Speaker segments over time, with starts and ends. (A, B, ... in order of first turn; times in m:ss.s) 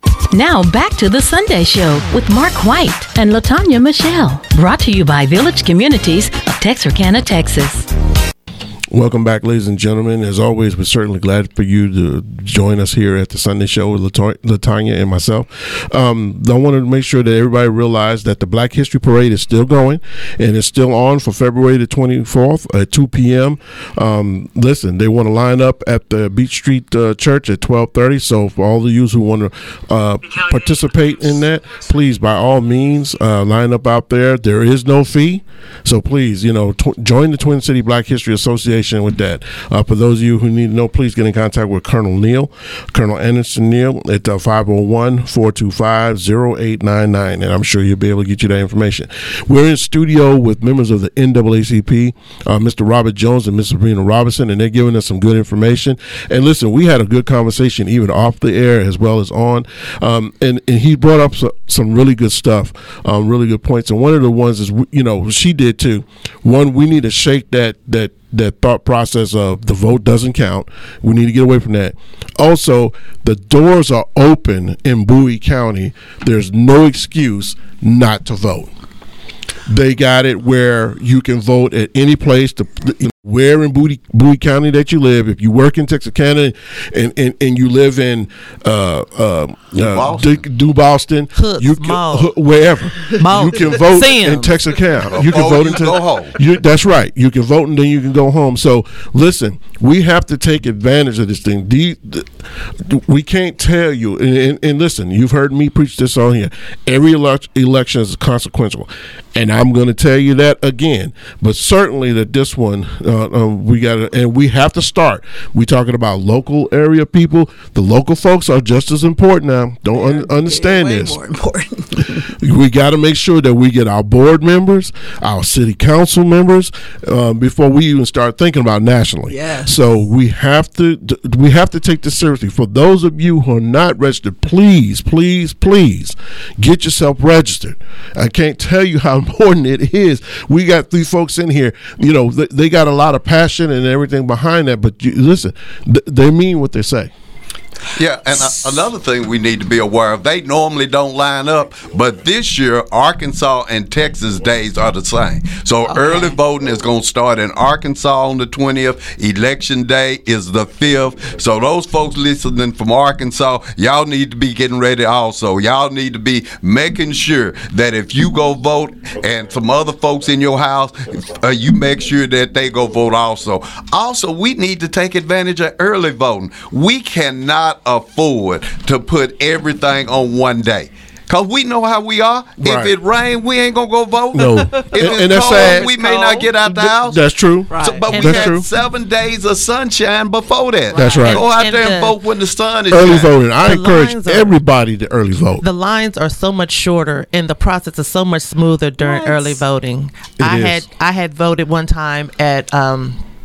0:00.3-0:07.9 A
0:08.9-1:18.7 B
1:19.7-2:01.2 B
1:29.8-1:30.4 C
1:31.3-1:32.3 D
1:33.1-1:34.6 D
1:35.1-1:36.4 C
2:00.0-2:02.3 E
2:02.3-2:27.1 B
2:09.3-2:09.7 E
2:27.9-3:07.2 C
2:35.9-2:36.4 E
3:02.6-3:02.9 B
3:04.4-3:05.9 B
3:04.4-3:06.5 E
3:06.6-3:08.6 B
3:07.7-3:08.3 E
3:07.8-3:13.3 C
3:08.1-3:08.5 D
3:10.9-3:11.4 B
3:10.9-3:11.2 E
3:11.2-3:12.2 D
3:12.9-3:15.6 B
3:13.6-3:14.6 D
3:15.6-3:23.2 D
3:19.0-3:19.6 E
3:20.4-3:20.8 B